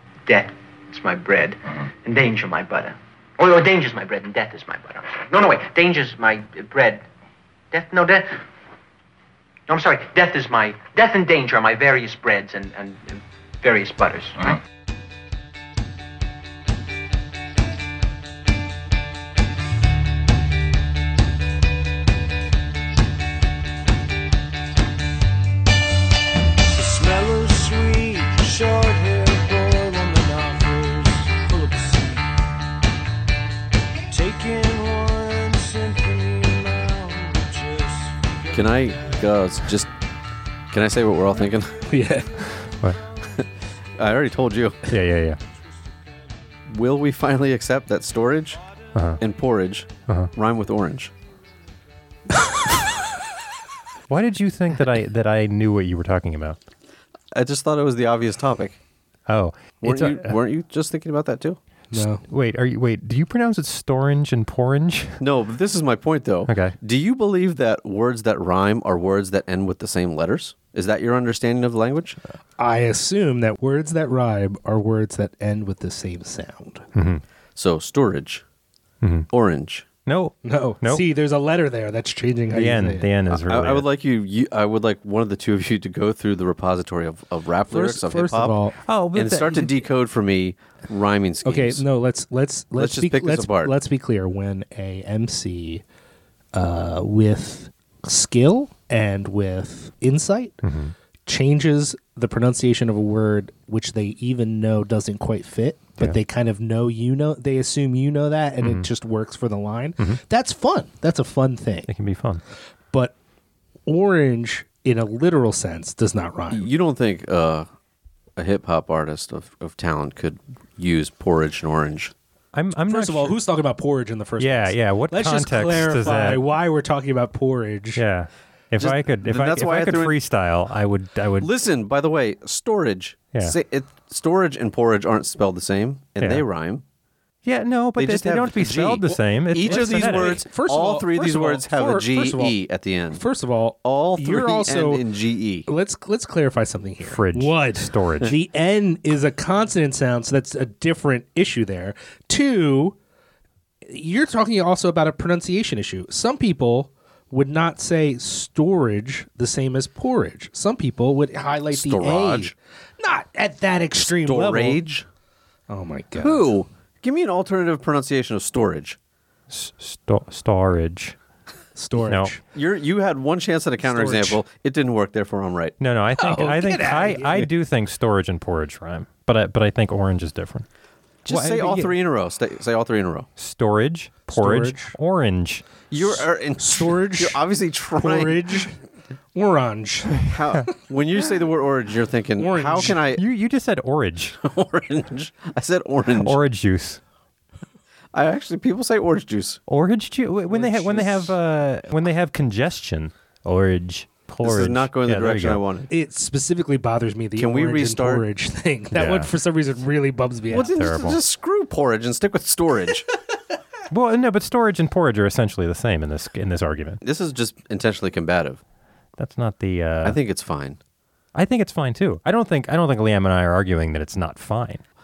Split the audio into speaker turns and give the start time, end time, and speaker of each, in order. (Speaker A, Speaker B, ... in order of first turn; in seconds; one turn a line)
Speaker A: 0.3-7.0
Speaker A: 7.7-8.4
Speaker A: 9.7-14.6
Speaker B: 26.9-31.8
Speaker C: 34.1-37.4
Speaker B: 34.3-37.9
Speaker D: 38.5-39.9
Speaker D: 40.7-41.9
Speaker C: 41.9-42.4
Speaker E: 42.6-43.0
Speaker D: 43.3-44.9
Speaker E: 44.9-45.4
Speaker D: 46.7-48.6
Speaker E: 49.0-49.2
Speaker D: 49.2-51.1
Speaker E: 54.1-56.6
Speaker D: 57.3-58.8
Speaker E: 59.3-60.4
Speaker D: 59.8-61.6
Speaker C: 61.9-62.2
Speaker E: 61.9-65.2
Speaker D: 65.2-72.2
Speaker E: 66.5-66.8
Speaker C: 72.6-76.8
Speaker E: 77.0-77.2
Speaker D: 77.6-78.4
Speaker E: 79.0-79.3
Speaker D: 79.3-79.9
Speaker E: 80.1-81.1
Speaker C: 80.4-83.1
Speaker E: 82.5-83.9
Speaker D: 83.3-88.6
Speaker C: 87.7-88.8
Speaker E: 88.8-89.7
Speaker D: 89.1-91.8
Speaker C: 91.4-95.8
Speaker D: 92.8-93.8
Speaker C: 96.5-100.6
Speaker E: 100.6-101.0
Speaker C: 101.3-111.9
Speaker E: 108.6-108.9
Speaker E: 111.9-112.4
Speaker C: 113.9-116.7
Speaker D: 116.5-117.7
Speaker D: 118.4-122.1
Speaker E: 122.5-123.4
Speaker C: 122.9-128.0
Speaker E: 124.4-126.4
Speaker E: 128.0-131.5
Speaker D: 128.8-130.2
Speaker D: 131.4-136.8
Speaker E: 136.2-136.4
Speaker E: 137.4-140.4
Speaker D: 138.0-143.2
Speaker C: 139.6-142.6
Speaker C: 143.1-145.0
Speaker D: 143.8-145.7
Speaker C: 145.7-153.0
Speaker E: 147.0-148.3
Speaker C: 153.9-164.8
Speaker D: 161.7-162.5
Speaker D: 164.0-165.1
Speaker C: 165.7-166.4
Speaker D: 166.2-169.0
Speaker E: 169.5-171.2
Speaker C: 171.8-172.4
Speaker E: 172.1-172.3
Speaker D: 172.5-175.8
Speaker C: 173.8-174.4
Speaker E: 175.8-180.7
Speaker C: 176.1-177.5
Speaker E: 181.3-181.9
Speaker D: 181.3-183.3
Speaker E: 183.4-185.8
Speaker C: 184.3-184.9
Speaker D: 185.9-188.7
Speaker C: 186.6-187.4
Speaker C: 187.9-188.8
Speaker C: 189.3-190.4
Speaker D: 190.2-193.2
Speaker C: 192.4-193.0
Speaker E: 193.1-194.4
Speaker D: 194.3-196.4
Speaker E: 196.2-197.0
Speaker D: 198.1-199.6
Speaker E: 199.7-205.6
Speaker D: 200.5-201.3
Speaker D: 204.4-205.9
Speaker C: 205.9-210.7
Speaker D: 207.3-208.3
Speaker E: 208.9-209.3
Speaker E: 210.5-211.2
Speaker D: 210.5-213.1
Speaker E: 213.9-217.0
Speaker D: 217.0-218.6
Speaker E: 219.2-220.2
Speaker D: 220.0-220.8
Speaker E: 221.3-224.8